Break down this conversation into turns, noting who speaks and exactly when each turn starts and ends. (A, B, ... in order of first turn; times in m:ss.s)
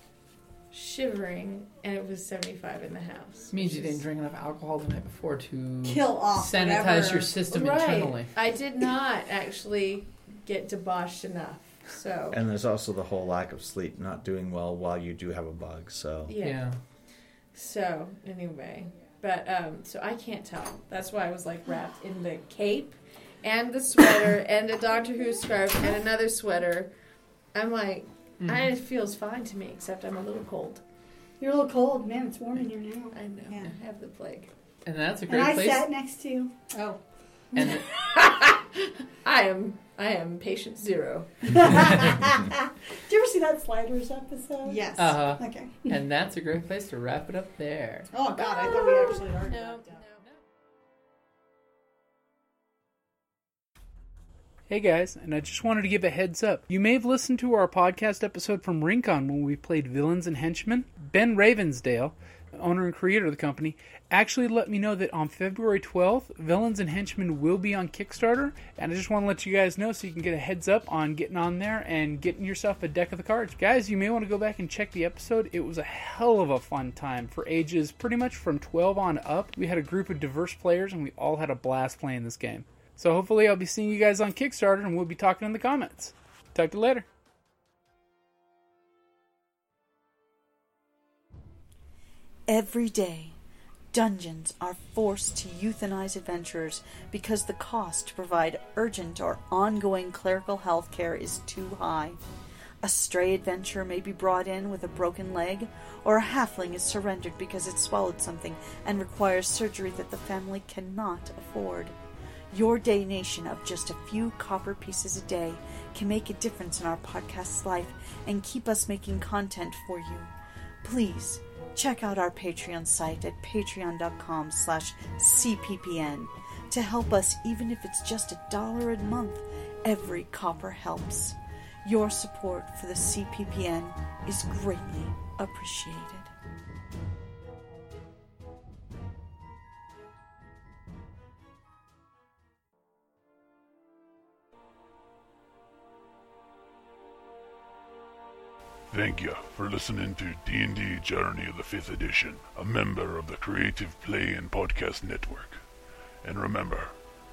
0:00.7-0:04.0 A
0:03.5-0:08.3 B
0:05.8-0:07.4 C
0:07.5-0:12.4 A
0:12.3-0:16.3 D
0:16.3-0:16.6 A
0:16.4-0:16.8 B
0:17.5-0:26.9 A
0:27.5-0:30.8 A
0:28.4-0:28.7 B
0:31.4-0:33.1 E
0:33.1-0:34.5 A
0:33.5-0:33.7 C
0:34.8-0:35.9 B
0:35.3-0:36.5 E
0:36.7-0:37.0 C
0:37.6-0:37.9 B
0:37.6-0:41.8 A
0:41.5-0:45.9 E
0:44.6-0:45.5 C
0:45.0-0:48.1 B
0:48.1-0:50.0 C
0:48.3-0:50.2 A
0:54.7-1:27.1 F
1:32.5-1:33.4 G
1:33.9-1:42.2 G
1:42.8-1:52.0 G
1:52.5-2:00.3 G
2:00.8-2:16.3 G
2:28.9-2:35.6 H
2:36.2-2:36.9 H